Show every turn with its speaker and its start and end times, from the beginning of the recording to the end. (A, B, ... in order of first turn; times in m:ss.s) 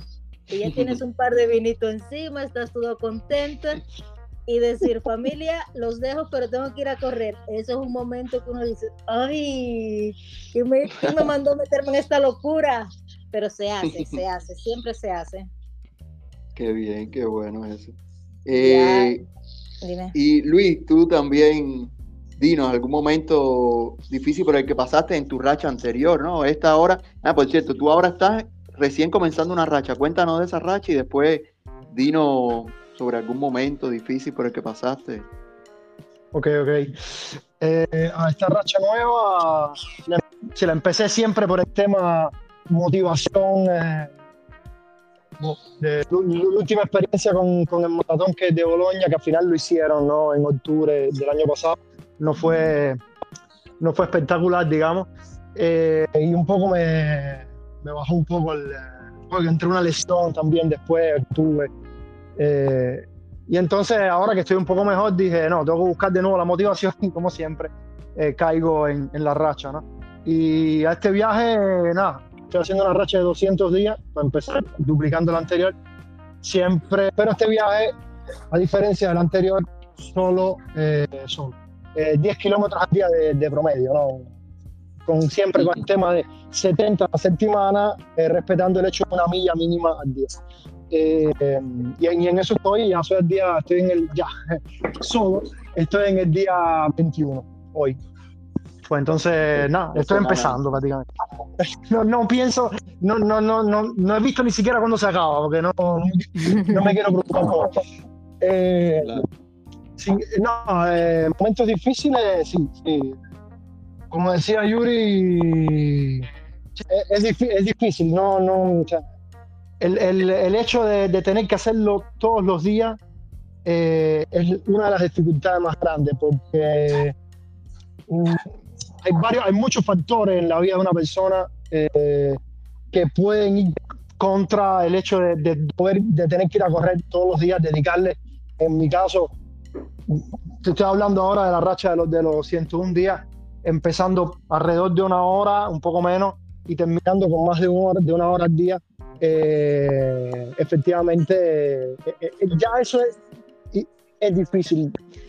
0:00.5-0:03.8 A
0:00.7-0:01.0 B
0:04.5-0:15.5 A
0:13.9-0:14.2 B
0:16.6-0:19.2 B
0:18.6-0:19.2 A
0:19.8-0:20.1 A
0:20.1-0:35.3 B
0:36.3-0:44.1 C
0:45.4-0:53.0 C
0:53.8-1:01.7 C
1:02.4-1:15.7 C
1:16.4-1:18.0 C
1:18.5-1:24.3 C
1:25.0-1:30.4 C
1:30.9-1:38.0 C
1:38.8-1:41.0 C
1:39.9-1:40.6 B
1:41.6-1:47.8 C
1:48.4-1:49.2 C
1:49.0-1:49.2 B
1:50.0-1:53.2 C
1:54.1-1:59.0 C
1:59.8-2:03.0 C
2:03.6-2:07.2 C
2:08.1-2:12.4 C
2:12.9-2:19.4 C
2:20.1-2:33.2 C
2:33.7-2:35.0 C